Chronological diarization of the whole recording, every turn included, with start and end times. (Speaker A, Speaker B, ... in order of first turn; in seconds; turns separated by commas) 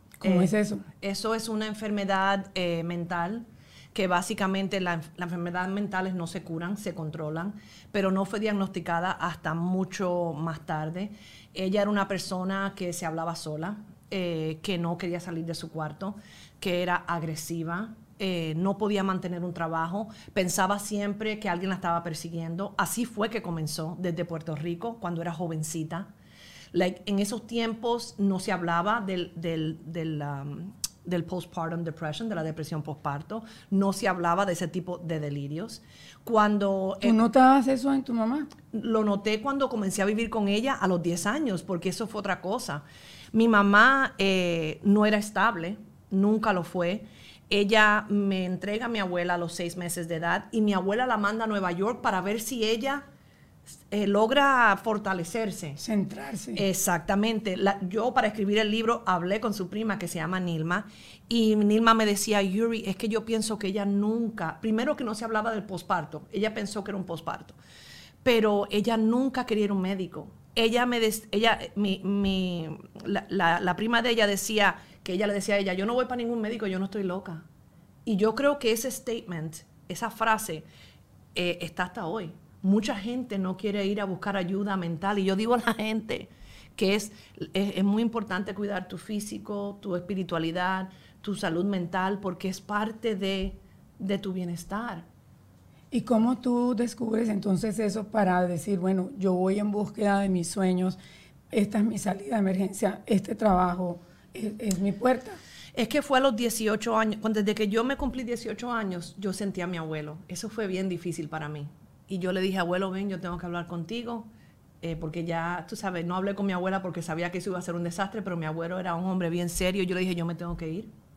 Speaker A: 0.2-0.8, Speaker B: 0.2-26.1, Speaker B: 26.7-37.3, Speaker A: 37.0-38.5, Speaker B: 38.7-53.0, Speaker B: 53.7-55.8, Speaker A: 55.8-56.6, Speaker B: 56.5-67.6, Speaker B: 68.2-77.5, Speaker B: 78.0-80.7, Speaker B: 81.3-95.0, Speaker A: 95.9-101.0, Speaker A: 101.5-105.4, Speaker B: 105.7-114.3, Speaker B: 114.8-120.9